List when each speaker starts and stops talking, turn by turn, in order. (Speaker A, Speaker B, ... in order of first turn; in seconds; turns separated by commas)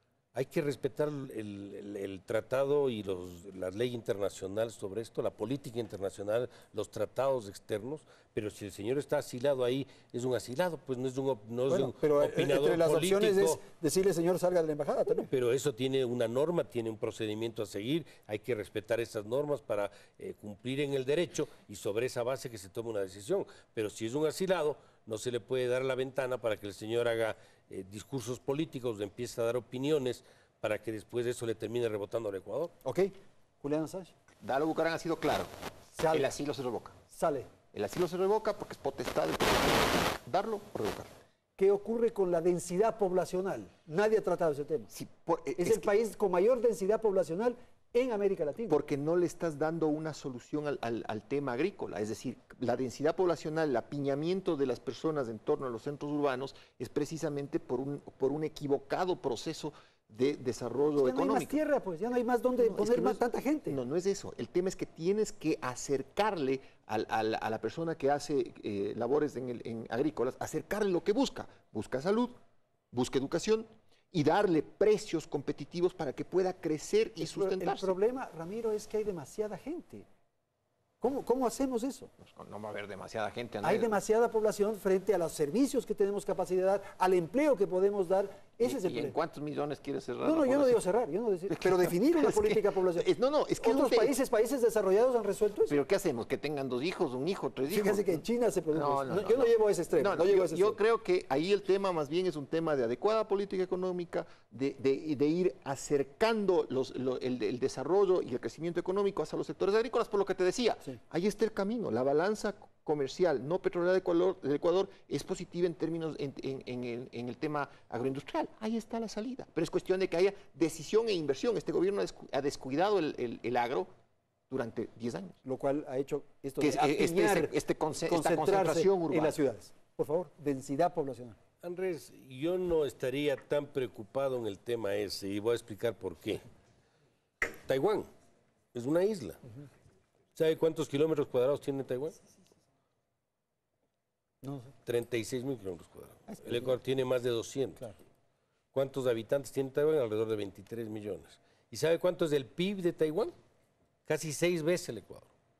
Speaker A: 0.3-13.6, Speaker B: 11.7-15.3, Speaker A: 15.2-32.7, Speaker B: 32.8-34.1, Speaker C: 34.4-35.5, Speaker B: 36.0-36.3, Speaker C: 36.1-37.0, Speaker B: 37.1-37.5, Speaker C: 37.7-41.1, Speaker B: 41.6-44.9, Speaker C: 44.9-45.9, Speaker B: 45.5-48.8, Speaker C: 48.7-61.6, Speaker B: 61.0-63.8, Speaker C: 62.6-72.3, Speaker C: 72.9-78.0, Speaker B: 77.2-80.1, Speaker B: 81.0-82.1, Speaker C: 82.2-84.0, Speaker B: 83.6-89.2, Speaker C: 88.6-90.8, Speaker B: 90.2-93.1, Speaker C: 91.5-94.1, Speaker B: 93.6-95.8, Speaker C: 95.7-98.2, Speaker B: 97.7-100.8, Speaker C: 98.7-123.9, Speaker C: 124.5-125.4, Speaker B: 125.4-127.5, Speaker C: 126.6-129.4, Speaker B: 128.1-131.4, Speaker A: 131.6-136.4, Speaker A: 137.7-138.1, Speaker A: 138.7-139.4, Speaker A: 140.3-142.2, Speaker B: 144.4-144.7, Speaker A: 144.8-147.9, Speaker B: 146.3-146.7, Speaker A: 148.7-153.3, Speaker A: 154.1-155.3